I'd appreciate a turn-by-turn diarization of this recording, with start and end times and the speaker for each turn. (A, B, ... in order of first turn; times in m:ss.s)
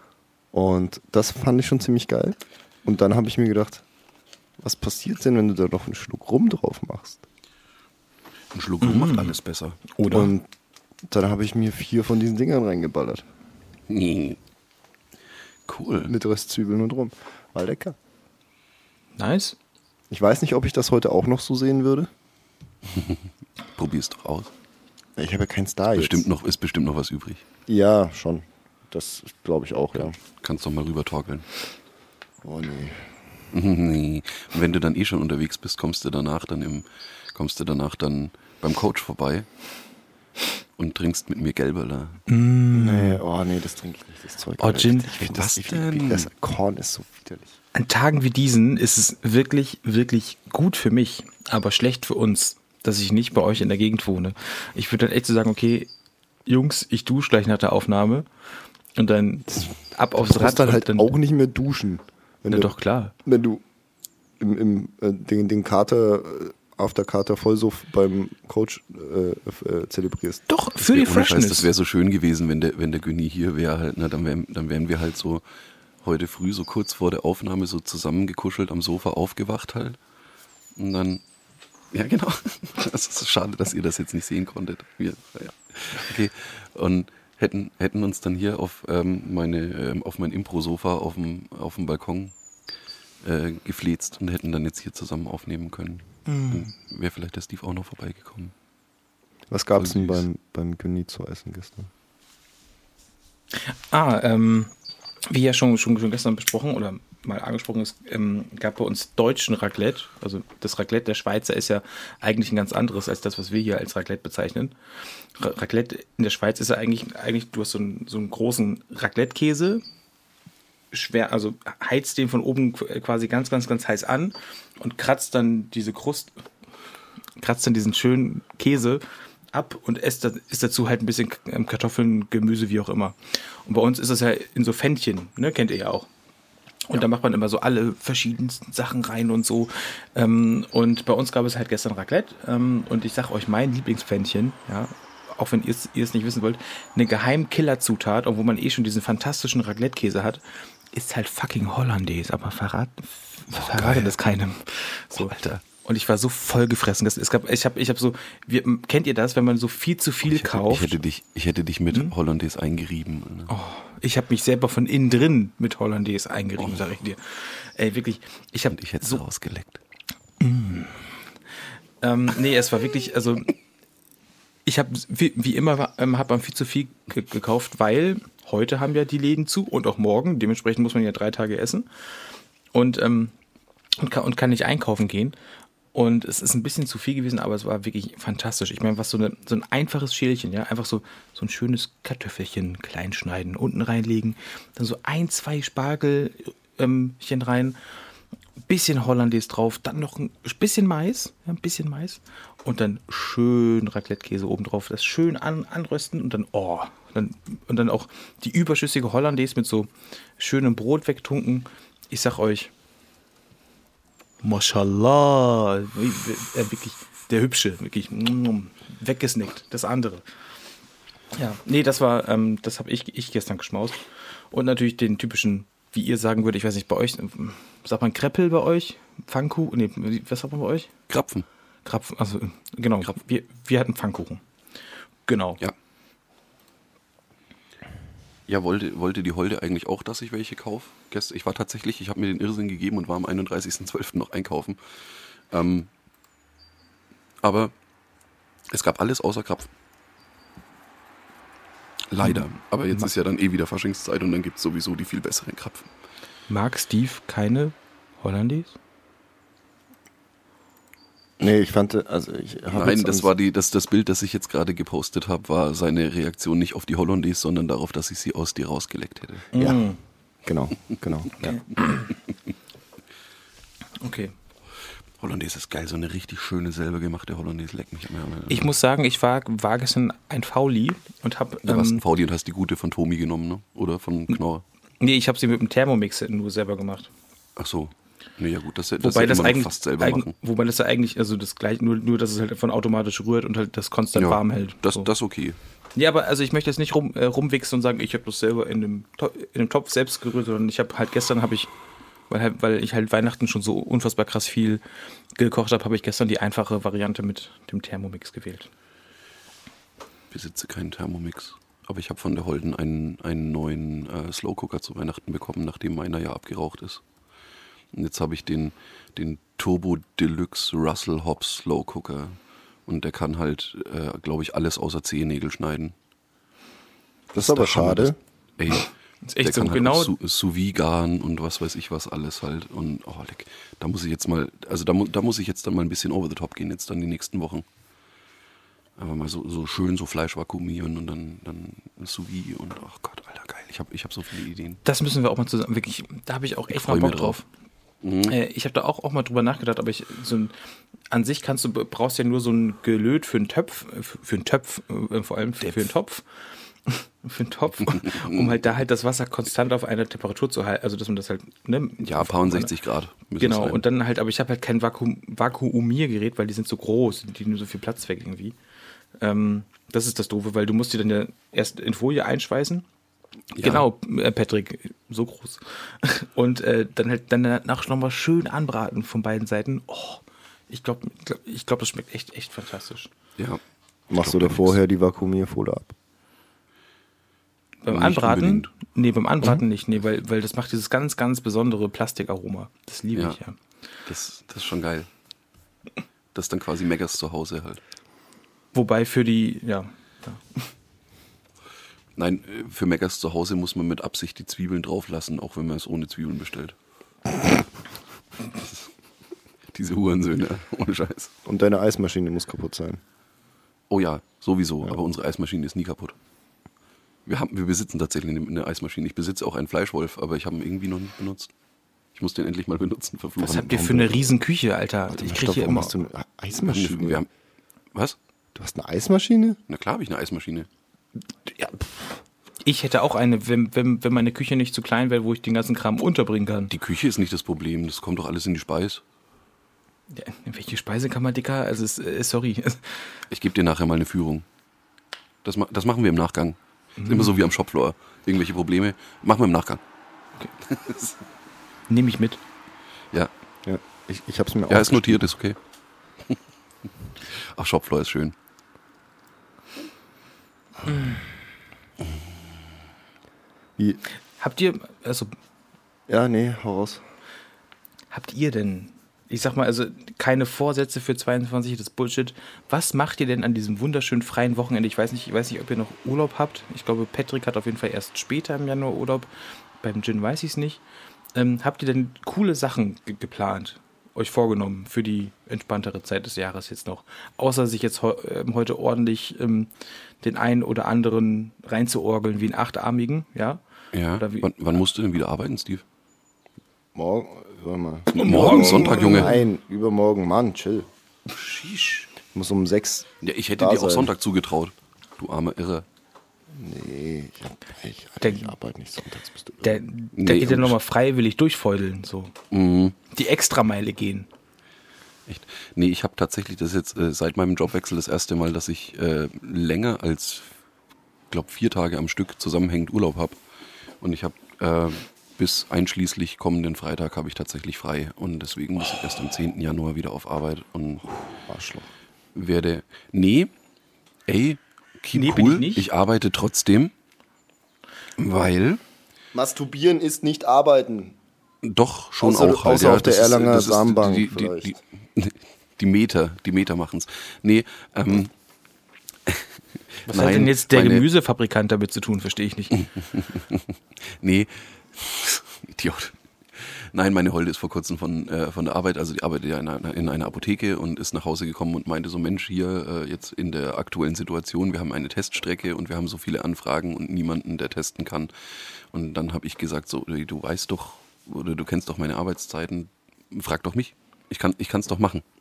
0:00.5-0:03.8 A
0:04.6-0:07.2 A
0:08.5-0:09.8 B
0:08.8-0:09.4 C
0:09.9-0:10.3 C
0:10.1-0:10.5 A
0:11.1-0:13.2 A
0:13.9-0:14.4 B
0:15.7-0:16.1 B
0:16.0-0:18.0 A
0:19.2-0:19.6 C
0:20.1-0:22.1 A
0:23.8-0:24.5 B
0:25.2-0:26.3 A
0:25.9-0:27.4 B
0:27.7-0:30.2 A
0:29.9-0:31.5 B
0:32.4-0:33.2 A
0:33.5-0:39.5 B
0:40.8-0:42.2 B
0:42.3-0:43.2 C
0:42.7-0:47.6 A
0:44.6-0:45.1 C
0:45.2-0:46.3 B
0:47.7-0:55.9 C
0:56.4-0:58.3 C
0:59.0-1:01.1 C
0:59.5-1:02.7 A
1:02.5-1:03.1 C
1:03.2-1:03.6 A
1:04.4-1:10.4 A
1:10.5-1:11.7 C
1:10.8-1:15.4 B
1:16.0-1:20.0 B
1:20.8-1:21.2 B
1:21.9-1:32.3 B
1:33.2-1:38.5 B
1:36.2-1:36.7 C
1:39.5-1:41.9 A
1:39.7-1:40.2 B
1:43.5-1:44.7 C
1:45.3-1:54.7 C
1:55.3-1:59.8 C
2:00.9-2:06.3 C
2:07.4-2:16.1 C
2:16.9-2:41.0 C
2:33.6-2:34.2 B
2:35.1-2:35.6 B
2:40.3-2:43.5 B
2:43.5-2:49.2 C
2:48.7-2:49.8 B
2:50.4-2:51.2 C
2:52.0-2:53.5 C
2:54.6-3:03.3 C
3:04.0-3:05.4 C
3:05.9-3:17.8 C
3:18.7-3:32.7 C
3:34.4-3:40.2 C
3:41.3-3:50.9 C
3:51.1-3:51.4 B
3:51.8-3:54.4 C
3:55.3-3:55.6 C
3:58.5-4:04.8 B
4:05.5-4:05.9 B
4:07.4-4:07.7 B
4:08.7-4:09.7 B
4:12.1-4:15.9 B
4:12.2-4:13.1 C
4:16.5-4:18.7 C
4:21.4-4:23.3 A
4:22.7-4:29.5 B
4:29.5-4:30.0 C
4:29.5-4:29.8 A
4:30.4-4:31.6 A
4:31.4-4:32.0 C
4:34.0-4:34.3 C
4:35.2-4:38.7 B
4:38.5-4:42.0 C
4:41.6-4:44.6 B
4:45.0-4:47.1 C
4:47.6-4:50.3 B
4:49.0-4:55.1 C
4:54.2-4:55.6 B
4:56.0-5:01.7 C
5:02.3-5:04.8 C
5:05.3-5:08.7 C
5:10.3-5:17.0 B
5:17.9-5:25.9 B
5:27.3-5:28.2 A
5:27.3-5:37.6 B
5:29.2-5:30.1 C
5:39.0-5:44.8 B
5:44.8-5:47.4 C
5:46.7-5:47.4 B
5:48.0-5:48.4 B
5:48.2-5:50.6 C
5:51.1-6:02.7 C
5:55.6-5:55.9 B
5:57.9-5:58.6 B
6:02.0-6:03.8 B
6:03.4-6:08.6 C
6:09.2-6:12.8 C
6:13.5-6:13.8 B
6:13.6-6:23.1 C
6:24.1-6:25.9 A
6:24.1-6:24.8 B
6:27.8-6:33.6 C
6:27.9-6:28.7 B
6:34.1-6:35.1 B
6:36.3-6:37.8 B
6:38.7-6:40.7 C
6:42.2-6:46.7 B
6:49.7-6:51.3 B
6:51.4-6:53.0 A
6:53.9-6:56.1 B
6:57.2-7:01.5 B
7:02.1-7:04.2 B
7:03.4-7:05.9 C
7:05.1-7:07.2 A
7:06.6-7:07.3 B
7:08.5-7:09.6 A
7:09.7-7:10.7 B
7:12.6-7:16.7 C
7:16.7-7:19.0 B
7:20.1-7:23.2 C
7:23.3-7:24.4 B
7:25.4-7:29.8 B
7:27.0-7:27.3 C
7:30.6-7:31.2 B
7:31.9-7:32.4 C
7:33.6-7:35.3 A
7:34.7-7:35.6 B
7:37.2-7:38.3 B
7:40.8-7:41.2 C
7:44.4-7:45.3 C
7:46.1-7:47.0 A
7:48.1-7:59.3 C
7:59.8-8:00.8 C
8:01.3-8:13.6 C
8:13.9-8:15.8 B
8:14.2-8:14.5 C
8:16.9-8:20.9 A
8:18.1-8:19.3 B
8:18.1-8:19.4 C
8:21.4-8:22.0 C
8:22.3-8:24.1 A
8:23.2-8:25.8 B
8:26.5-8:29.8 A
8:28.2-8:28.5 C
8:29.6-8:32.3 C
8:30.1-8:30.8 B
8:32.5-8:33.0 B
8:33.1-8:34.3 C
8:35.3-8:40.5 B
8:41.3-8:43.4 B
8:44.0-8:51.1 B
8:51.5-8:51.9 A
8:52.3-8:53.5 B
8:54.3-8:56.9 B
8:55.1-8:55.8 C
8:58.2-8:58.8 B
8:59.3-9:01.2 A
9:01.6-9:08.3 B
9:02.2-9:04.8 A
9:09.3-9:11.0 B
9:10.1-9:12.7 C
9:12.8-9:35.2 B